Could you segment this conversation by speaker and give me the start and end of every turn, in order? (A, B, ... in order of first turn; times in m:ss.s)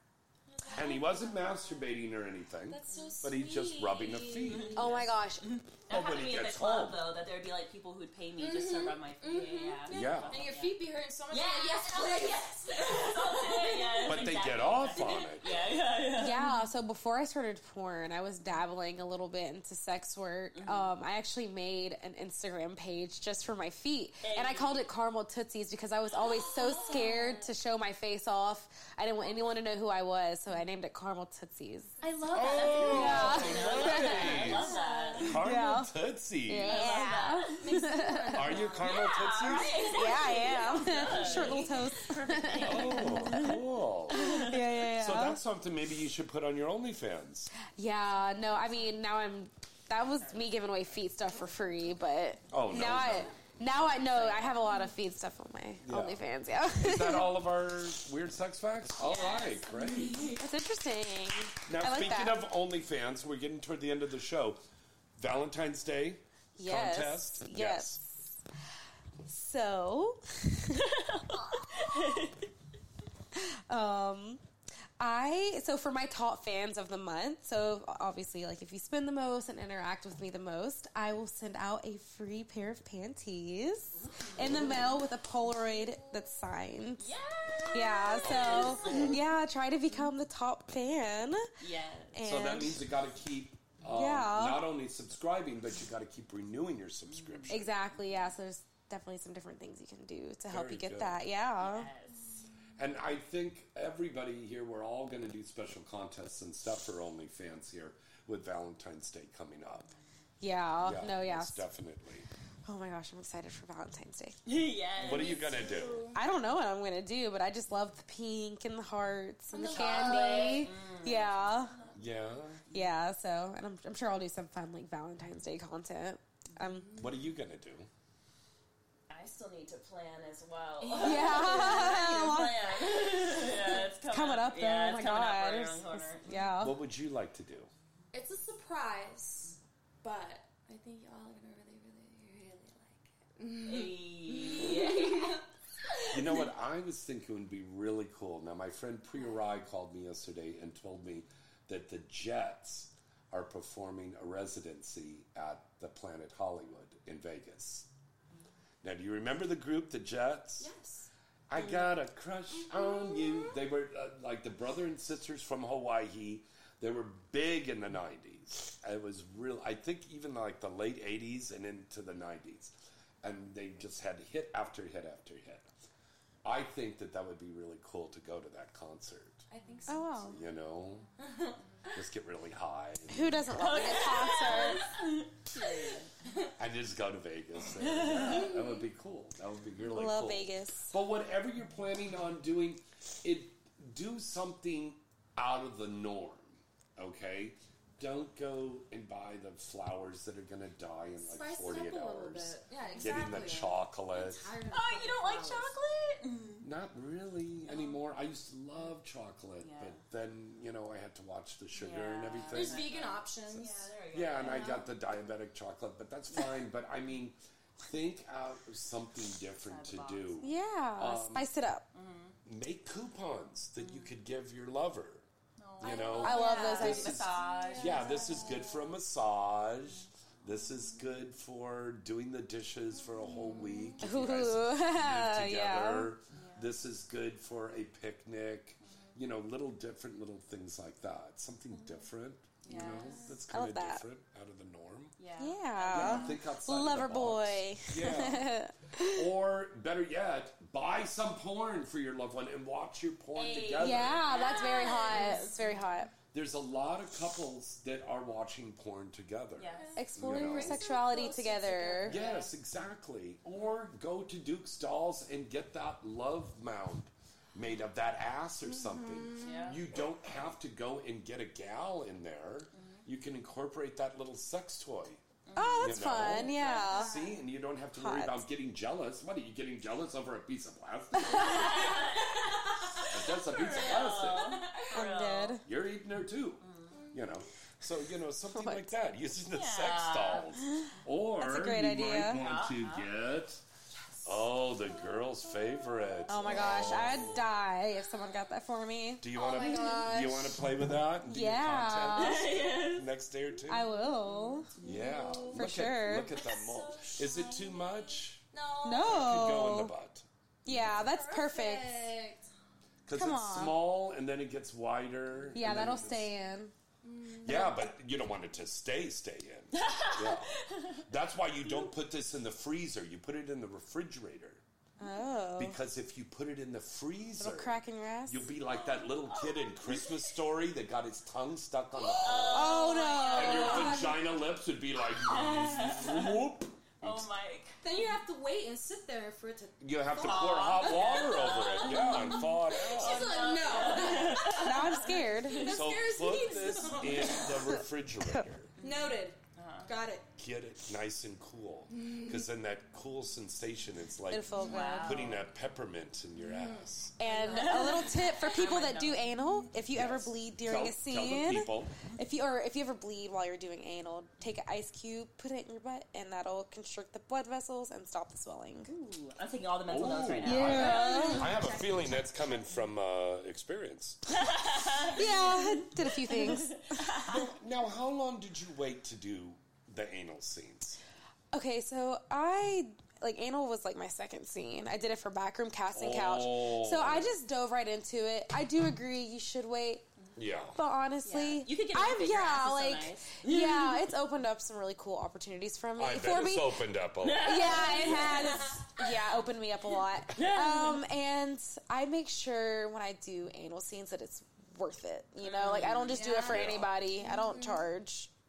0:00.5-0:01.9 A
0:00.7-0:04.8 B
0:02.7-0:04.9 A
0:02.9-0:03.2 C
0:04.5-0:10.8 C
0:04.8-0:05.5 D
0:05.9-0:07.0 B
0:08.4-0:14.1 A
0:09.9-0:10.4 B
0:11.3-0:16.5 C
0:14.1-0:15.5 B
0:16.2-0:32.0 D
0:20.5-0:20.9 C
0:24.2-0:24.9 C
0:26.6-0:27.4 A
0:32.0-0:35.3 A
0:32.0-0:35.4 C
0:32.3-0:36.8 B
0:32.9-0:34.5 D
0:35.2-0:38.7 D
0:36.6-0:37.9 C
0:36.7-0:38.9 A
0:38.3-0:40.0 B
0:38.8-0:43.6 C
0:39.9-0:43.6 D
0:40.5-0:40.8 A
0:41.1-0:41.4 B
0:42.6-0:44.2 B
0:44.1-0:44.7 C
0:44.1-0:45.4 D
0:45.0-0:47.5 B
0:47.8-0:57.3 D
0:50.0-0:50.4 C
0:52.5-0:53.3 B
0:53.8-0:54.7 C
0:55.8-1:00.3 B
0:59.0-1:00.4 C
1:00.4-1:02.5 D
1:01.7-1:04.6 B
1:05.2-1:08.0 B
1:06.6-1:08.4 D
1:09.3-1:10.9 D
1:11.7-1:12.4 C
1:13.3-1:14.4 D
1:15.0-1:27.1 D
1:24.0-1:24.8 C
1:24.4-1:24.8 B
1:27.0-1:29.2 C
1:27.7-1:31.5 D
1:28.2-1:29.2 B
1:31.6-1:32.2 C
1:32.1-1:32.8 D
1:32.2-1:37.8 B
1:33.9-1:34.7 D
1:37.1-1:37.6 C
1:37.5-1:41.9 D
1:40.5-1:41.2 B
1:41.6-1:42.5 C
1:42.8-1:49.9 B
1:50.4-1:51.6 D
1:50.8-1:52.3 B
1:52.7-1:54.4 D
1:54.5-1:55.6 C
1:55.0-1:56.2 A
1:55.0-1:56.1 B
1:56.2-2:01.8 D
1:59.5-2:00.7 A
1:59.6-2:01.8 C
2:02.0-2:02.6 B
2:02.7-2:07.1 D
2:06.8-2:07.1 A
2:07.0-2:07.9 B
2:09.1-2:16.5 C
2:10.8-2:12.0 A
2:11.0-2:13.5 D
2:14.0-2:16.8 D
2:16.6-2:17.7 B
2:18.1-2:26.4 A
2:23.6-2:25.4 C
2:26.1-2:37.9 B
2:38.8-2:40.7 B
2:40.6-2:41.1 A
2:41.5-2:55.7 B
2:56.4-2:59.4 B
2:59.5-3:00.4 A
2:59.9-3:00.4 D
3:00.3-3:01.1 B
3:01.2-3:01.6 A
3:01.9-3:03.9 B
3:03.1-3:04.8 D
3:03.5-3:06.1 C
3:06.2-3:06.5 A
3:06.6-3:24.6 B
3:07.8-3:08.5 C
3:08.4-3:08.8 A
3:09.9-3:11.0 D
3:21.2-3:25.8 A
3:24.7-3:26.6 C
3:26.6-3:32.9 B
3:27.7-3:27.9 C
3:29.6-3:30.0 C
3:31.8-3:34.9 C
3:32.5-3:33.9 A
3:33.5-3:41.5 B
3:34.4-3:34.8 A
3:39.7-3:40.6 C
3:40.4-3:41.9 D
3:41.9-3:42.4 C
3:42.4-3:45.2 B
3:43.8-3:44.1 C
3:45.6-3:48.4 C
3:45.8-4:05.2 B
3:45.8-3:47.3 D
3:45.9-3:48.8 A
3:53.1-3:54.0 A
3:54.0-3:56.1 D
3:56.3-3:56.7 C
4:02.6-4:03.4 C
4:02.8-4:03.2 A
4:03.3-4:04.0 D
4:05.2-4:06.4 C
4:05.4-4:09.3 D
4:05.9-4:08.5 B
4:09.1-4:14.3 B
4:13.4-4:15.7 C
4:13.8-4:16.1 D
4:14.6-4:15.7 A
4:16.3-4:20.9 B
4:19.6-4:20.0 C
4:19.7-4:22.4 A
4:20.0-4:22.2 D
4:22.1-4:35.2 B
4:22.1-4:22.5 C
4:28.7-4:29.8 A
4:29.4-4:29.8 C
4:32.7-4:33.0 C
4:35.5-4:36.8 C
4:35.6-4:37.3 D
4:35.8-4:41.7 B
4:36.5-4:37.4 A
4:38.0-4:38.5 D
4:41.2-4:41.9 D
4:41.3-4:45.6 C
4:43.0-4:44.6 B
4:44.9-4:45.6 D
4:45.6-4:53.6 B
4:46.6-4:47.0 C
4:48.6-4:49.0 D
4:49.5-4:50.5 C
4:50.7-4:52.4 D
4:52.3-4:53.1 C
4:54.2-4:57.5 B
4:56.3-5:00.6 D
4:59.2-5:03.9 B
4:59.4-5:00.2 A
5:01.2-5:02.6 D
5:02.2-5:03.1 C
5:03.7-5:04.7 D
5:04.3-5:04.6 C
5:04.8-5:05.7 A
5:04.8-5:08.4 B
5:05.5-5:06.4 D
5:06.3-5:09.6 A
5:08.8-5:09.9 D
5:09.0-5:11.0 B
5:10.6-5:12.2 D
5:10.9-5:12.5 A
5:13.1-5:16.3 B
5:13.1-5:13.8 D
5:15.6-5:16.7 D
5:17.0-5:17.9 A
5:17.4-5:24.6 B
5:19.7-5:21.0 C
5:25.0-5:25.8 D
5:25.6-5:37.3 B
5:27.4-5:28.5 D
5:28.7-5:30.3 C
5:32.0-5:34.2 A
5:32.2-5:34.1 C
5:32.5-5:34.1 D
5:35.3-5:36.5 C
5:37.0-5:37.8 C
5:37.8-5:44.9 A
5:39.8-5:43.4 B
5:40.2-5:45.7 C
5:44.5-5:45.8 D
5:45.5-5:47.7 A
5:45.6-5:48.7 B
5:48.8-5:49.9 C
5:48.8-5:50.2 A
5:50.4-5:57.2 B
5:51.9-5:52.5 A
5:54.3-5:55.4 D
5:54.6-5:55.4 C
5:56.4-5:58.3 A
5:57.2-6:08.9 D
5:57.4-5:59.6 C
5:59.9-6:01.9 B
6:08.9-6:11.8 C
6:09.9-6:14.2 B
6:10.4-6:11.5 D
6:10.8-6:11.9 A
6:14.3-6:17.4 C
6:15.1-6:17.4 D
6:17.3-6:21.0 B
6:21.5-6:30.0 D
6:25.9-6:27.4 B
6:30.4-6:30.8 B
6:30.8-6:36.9 D
6:31.2-6:34.1 C
6:36.0-6:38.2 B
6:37.2-6:39.4 C
6:37.4-6:48.3 D
6:38.5-6:38.8 A
6:40.3-6:41.1 C
6:45.4-6:46.5 C
6:46.1-6:47.9 A
6:46.4-6:47.0 B